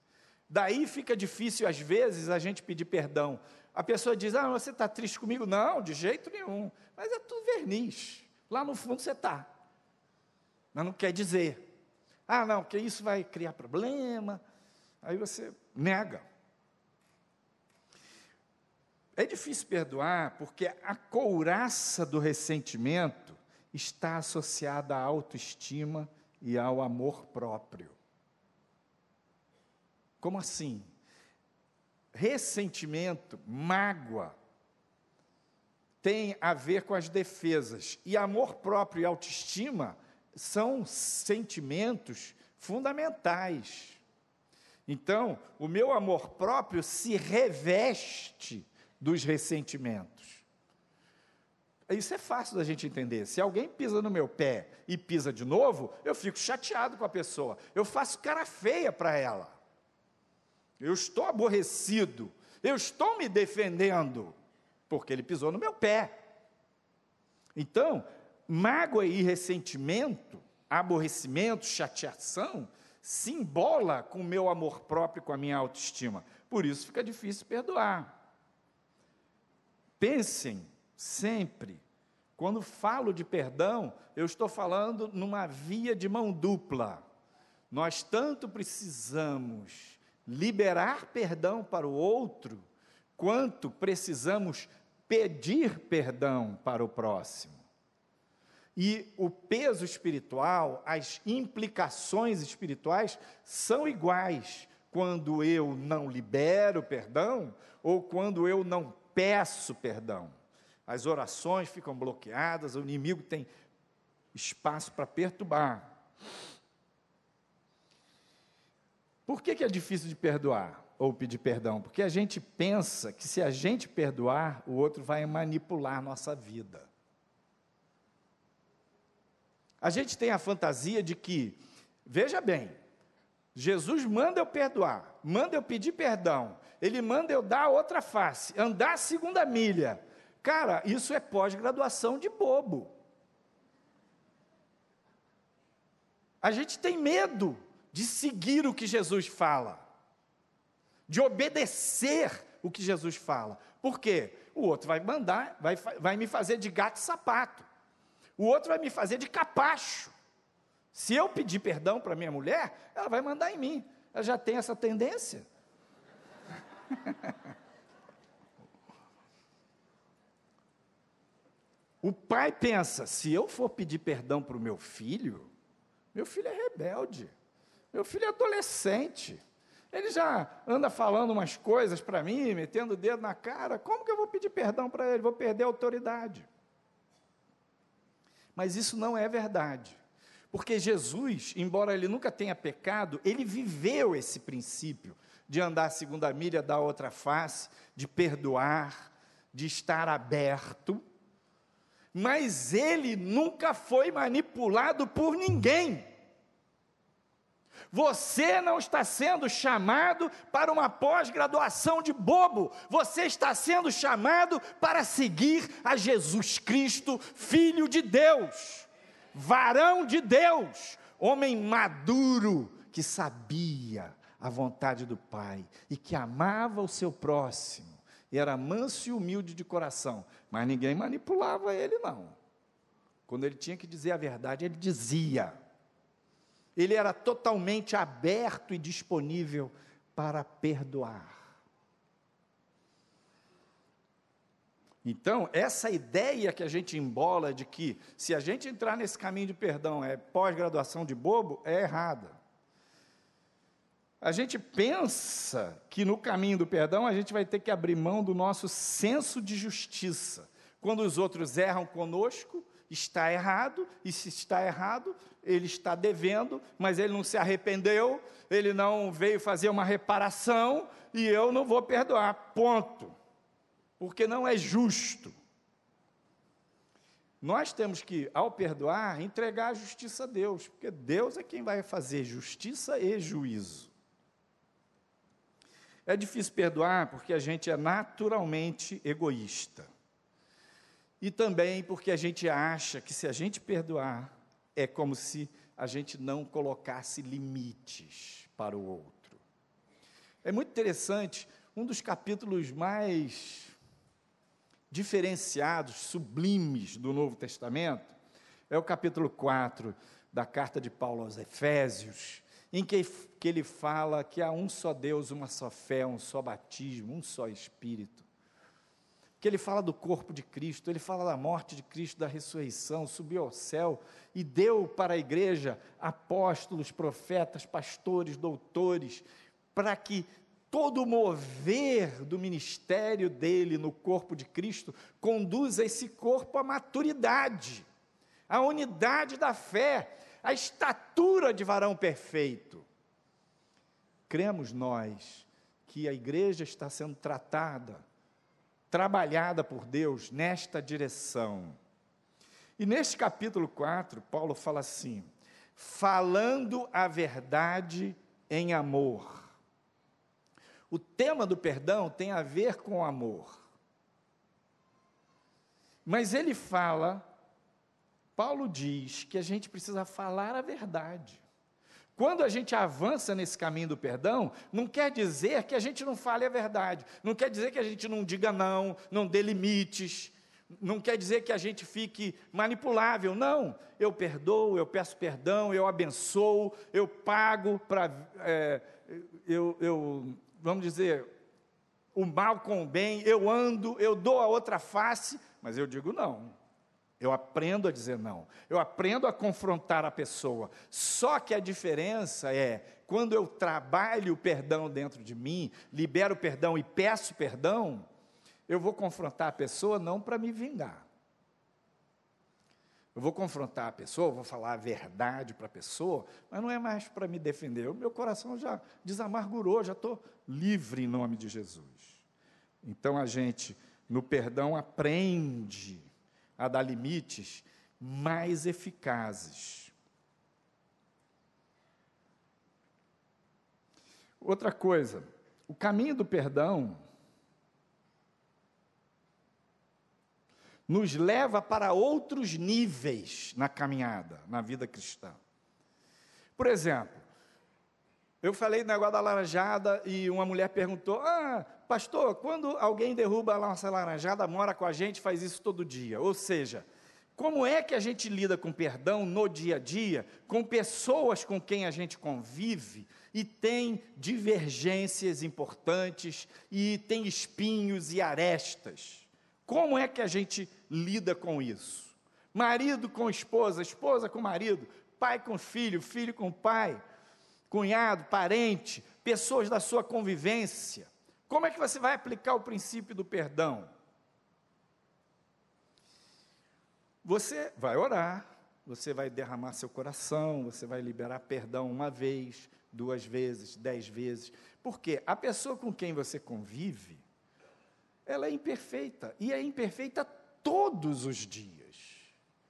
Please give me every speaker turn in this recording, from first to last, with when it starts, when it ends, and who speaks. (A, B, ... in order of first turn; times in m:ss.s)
0:00.5-0:09.5 A
0:10.7-0:11.6 A
0:12.3-0:14.4 A
0:15.0-0:16.2 A
0:19.2-0:28.0 A
0:30.2-0:30.9 A
0:32.1-0:34.3 A
0:36.0-0:44.0 A
0:44.9-0:50.4 A
0:51.9-0:59.6 A
1:00.8-1:04.3 A
1:04.9-1:06.1 A
1:07.6-1:18.1 A
1:20.0-1:21.8 A
1:22.4-1:27.0 A
1:27.7-1:32.6 A
1:33.2-1:37.6 A
1:38.8-1:50.3 A
1:50.9-1:53.5 A
1:54.3-1:55.9 A
1:59.2-2:06.9 A
2:09.8-2:12.7 A
2:13.5-2:22.9 A
2:26.4-2:29.8 A
2:31.1-2:37.6 A
2:38.4-2:40.1 A
2:40.9-2:45.5 A
2:52.0-2:55.5 A
2:56.1-2:57.3 A
2:57.9-3:06.5 A
3:08.6-3:10.0 A
3:10.5-3:21.0 A
3:22.1-3:26.1 A
3:27.9-3:52.4 A
3:53.3-3:55.6 A
3:56.8-4:01.5 A
4:05.0-4:12.3 A
4:14.2-4:33.1 A
4:34.0-4:35.3 A
4:37.4-4:43.9 A
4:46.0-4:49.9 A
4:51.2-4:59.4 A
5:00.4-5:03.7 A
5:04.9-5:08.1 A
5:08.7-5:18.2 A
5:19.4-5:37.8 A
5:38.5-5:42.8 A
5:44.3-5:48.0 A
5:48.9-5:51.8 A
5:52.8-5:59.5 A
6:00.9-6:03.6 A
6:06.0-6:07.2 A
6:08.4-6:11.4 A
6:12.2-6:31.3 A
6:32.1-6:36.5 A
6:37.2-6:48.0 A
6:48.7-6:51.0 A
6:53.1-7:02.2 A
7:02.8-7:06.1 A
7:06.6-7:09.9 A
7:14.4-7:17.0 A
7:20.9-7:25.4 A
7:26.6-7:27.2 A
7:28.4-7:57.0 A
7:57.7-8:03.9 A
8:07.2-8:17.2 A
8:18.2-8:22.3 A